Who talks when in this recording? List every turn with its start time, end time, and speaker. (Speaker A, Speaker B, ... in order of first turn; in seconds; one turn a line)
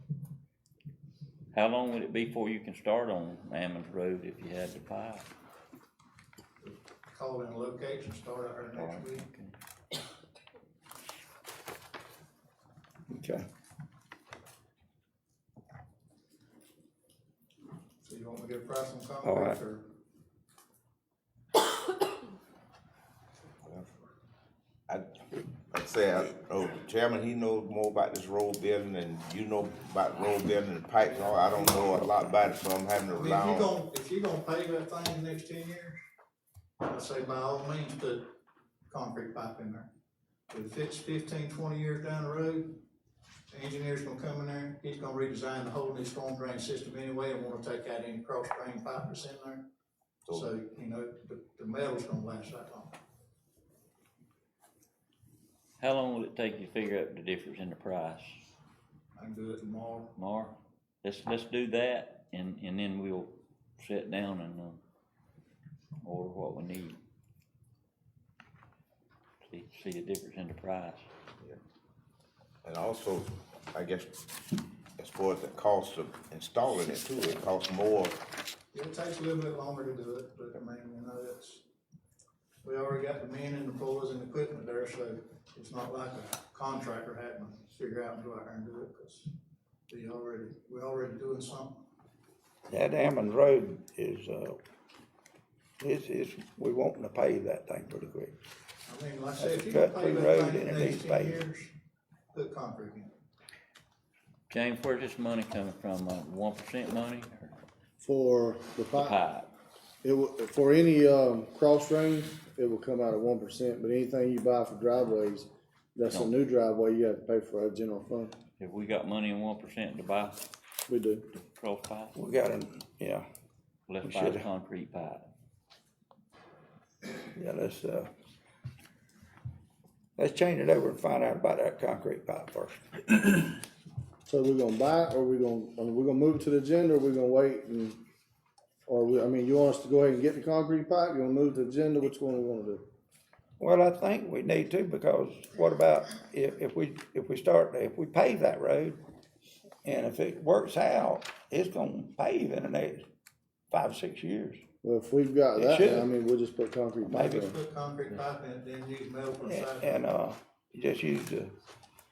Speaker A: 1.5-5.2
Speaker B: 6.6-9.2
Speaker A: 8.7-9.5
Speaker C: 13.1-13.4
Speaker B: 18.0-19.8
Speaker C: 19.2-19.6
Speaker D: 25.7-26.6
Speaker D: 27.4-30.9
Speaker B: 31.1-32.0
Speaker B: 33.0-36.0
Speaker B: 36.8-38.3
Speaker B: 38.9-39.9
Speaker B: 40.5-42.8
Speaker B: 43.5-49.6
Speaker B: 50.3-53.0
Speaker A: 55.8-58.4
Speaker B: 59.2-60.1
Speaker A: 60.1-64.8
Speaker A: 66.0-67.0
Speaker A: 69.4-71.1
Speaker B: 78.7-81.6
Speaker B: 82.6-89.3
Speaker B: 89.9-91.8
Speaker C: 92.7-94.6
Speaker C: 95.8-98.3
Speaker B: 98.8-101.7
Speaker C: 99.4-101.4
Speaker B: 102.3-103.1
Speaker A: 104.5-107.5
Speaker E: 108.0-109.1
Speaker A: 108.9-109.5
Speaker E: 110.0-118.3
Speaker A: 116.0-116.3
Speaker A: 118.6-120.4
Speaker E: 120.9-121.2
Speaker A: 121.3-122.1
Speaker C: 122.1-123.2
Speaker A: 123.9-125.2
Speaker C: 124.0-124.5
Speaker C: 127.3-128.1
Speaker C: 130.2-133.5
Speaker E: 134.2-138.0
Speaker E: 138.8-142.8
Speaker C: 143.6-149.0
Speaker C: 149.8-153.1
Speaker C: 153.7-154.6
Speaker E: 154.8-157.5
Speaker C: 155.6-156.1
Speaker C: 157.1-157.5
Speaker B: 157.1-160.1
Speaker C: 159.4-161.5